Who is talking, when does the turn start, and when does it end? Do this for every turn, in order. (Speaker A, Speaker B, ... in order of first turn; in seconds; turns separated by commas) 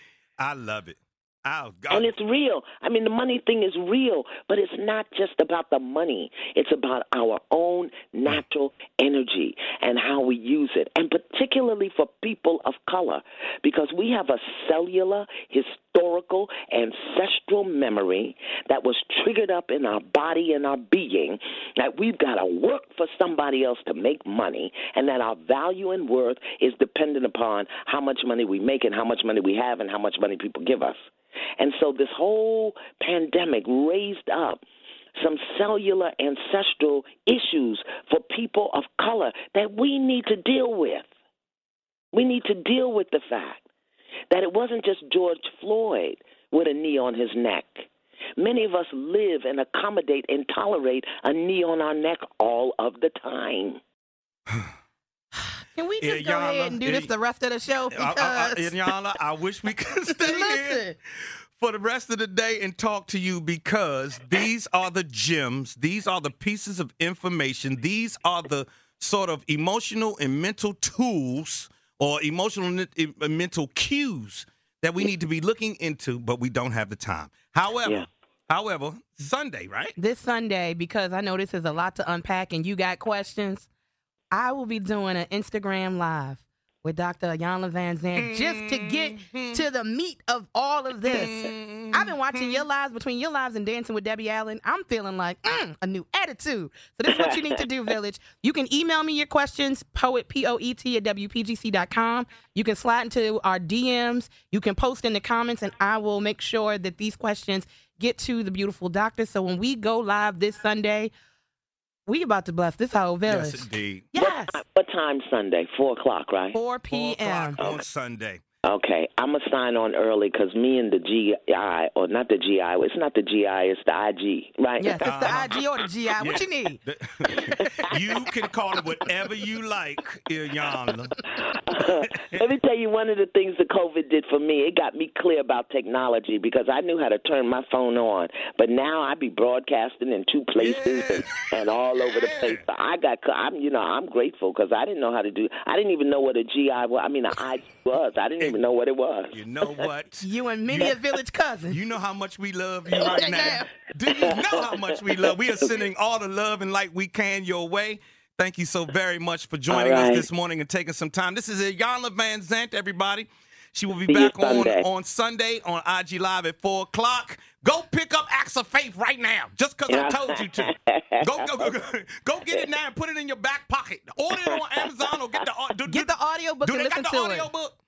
Speaker A: 0.4-2.1, Speaker B: 1.9-31.0, Speaker B: 31.6-34.6, Speaker B: 35.1-41.1, Speaker B: 42.1-43.6, Speaker B: 44.3-53.8, Speaker C: 55.4-58.7, Speaker A: 56.0-57.1, Speaker A: 57.9-60.9, Speaker C: 60.2-60.9, Speaker A: 61.5-79.9, Speaker C: 80.0-83.7, Speaker C: 84.3-111.1, Speaker A: 88.2-89.6, Speaker A: 91.0-92.6, Speaker B: 97.1-97.6, Speaker C: 112.1-114.6, Speaker A: 113.3-114.1, Speaker B: 114.1-116.6, Speaker C: 116.5-117.6, Speaker A: 116.9-118.4, Speaker B: 118.6-125.5, Speaker C: 124.8-126.8, Speaker A: 125.0-125.6, Speaker A: 126.2-131.2, Speaker B: 127.6-127.9, Speaker B: 131.4-149.4, Speaker A: 132.1-132.4, Speaker A: 140.6-142.6, Speaker A: 149.3-151.0, Speaker C: 150.2-151.8, Speaker A: 151.7-177.8, Speaker C: 153.0-153.6, Speaker B: 154.1-155.7, Speaker B: 159.7-160.3, Speaker B: 164.1-164.8, Speaker B: 169.9-171.7, Speaker B: 174.3-174.6, Speaker C: 175.9-177.5